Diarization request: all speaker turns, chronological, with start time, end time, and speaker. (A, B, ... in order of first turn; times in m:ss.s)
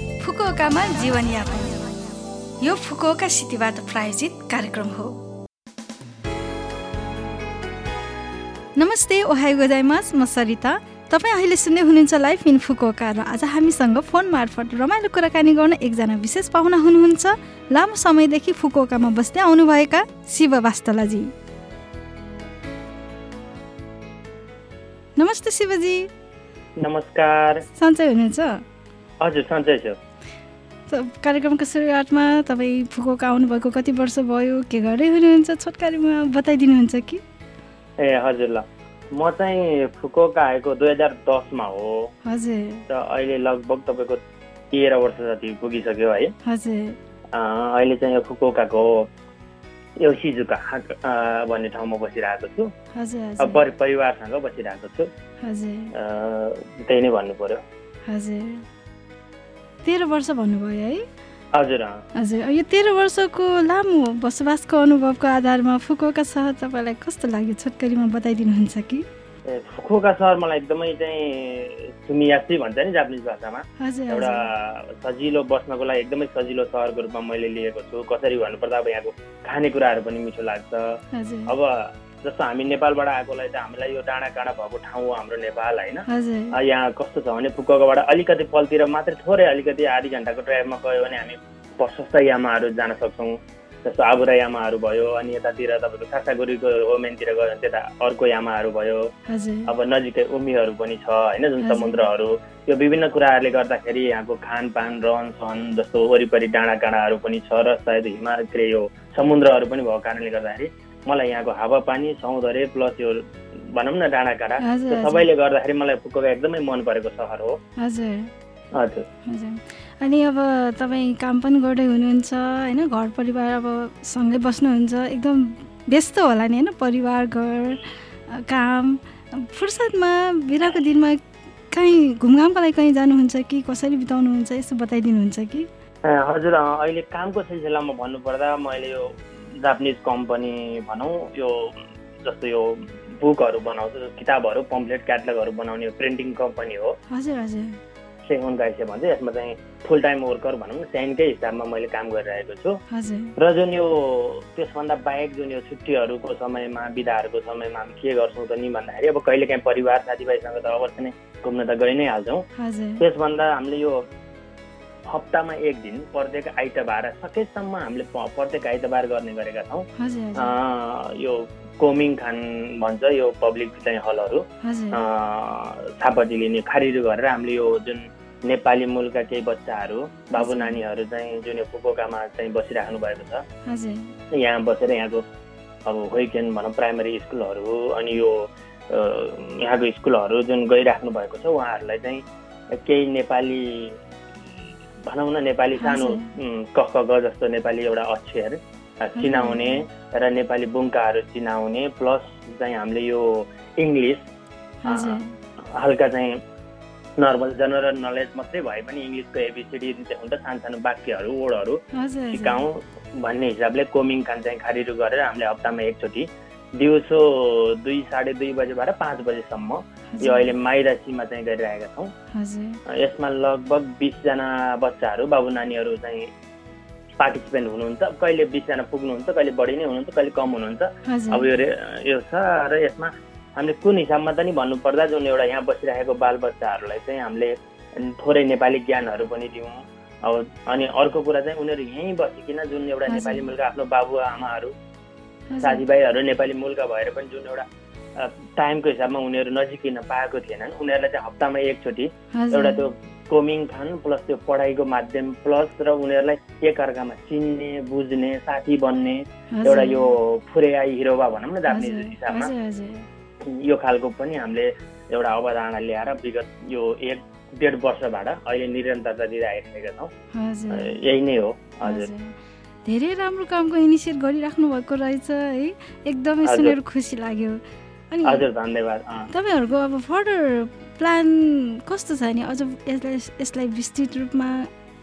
0:00.2-0:01.8 A
0:02.6-0:05.2 A
0:08.8-0:21.3 A
0:25.2-0:26.1 A
0:26.8-0:27.6 B
0:27.8-0:28.6 A
0:29.2-0:30.0 B
0:30.9-0:37.2 A
0:38.0-0:42.1 B
0:42.3-0:42.8 A
0:42.9-0:44.2 B
0:44.7-0:46.3 B
0:46.4-0:47.0 A
0:47.3-0:49.1 B
0:50.0-0:52.7 B
0:53.0-0:53.6 A
0:53.4-0:55.1 B
0:55.4-0:55.9 A
0:55.9-0:57.6 B
0:58.1-0:58.6 A
0:59.8-1:01.0 A
1:01.6-1:02.0 B
1:02.2-1:09.0 A
1:09.5-1:39.1 B
1:13.8-1:14.4 A
1:21.1-1:21.5 A
1:26.1-1:26.6 A
1:39.3-1:39.7 A
1:39.7-1:57.6 B
1:41.6-1:42.0 A
1:54.6-1:55.3 A
1:57.8-1:58.3 A
1:58.8-1:59.0 B
1:59.3-2:11.2 A
2:11.7-2:15.7 A
2:16.0-2:27.0 B
2:27.1-2:27.8 A
2:28.2-2:32.8 B
2:32.9-2:33.3 A
2:33.4-2:42.4 B
2:42.6-2:43.0 A
2:43.0-2:44.0 B
2:45.1-3:03.4 B
2:50.0-2:50.5 A
2:54.6-2:55.0 A
3:00.4-3:00.8 A
3:03.7-3:04.1 A
3:04.3-3:05.2 B
3:05.9-3:12.2 B
3:12.8-3:14.0 B
3:15.1-3:24.2 B
3:15.8-3:16.3 A
3:19.2-3:19.8 A
3:24.8-3:25.3 A
3:24.9-3:25.2 B
3:25.7-3:26.4 B
3:27.2-3:42.1 B
3:31.9-3:32.6 A
3:40.2-3:40.5 A
3:42.3-3:42.8 A
3:42.9-3:46.3 B
3:47.2-4:04.7 B
3:51.1-3:51.5 A
4:03.1-4:03.5 A
4:05.5-4:05.8 A
4:05.6-4:07.6 B
4:08.2-4:22.5 B
4:12.3-4:12.8 A
4:19.5-4:20.1 A
4:21.7-4:23.0 A
4:23.5-4:30.1 B
4:30.3-4:30.9 A
4:30.7-4:32.1 B
4:31.8-4:32.3 A
4:32.8-4:38.5 A
4:36.4-4:36.8 B
4:38.2-4:39.3 B
4:39.3-4:44.7 A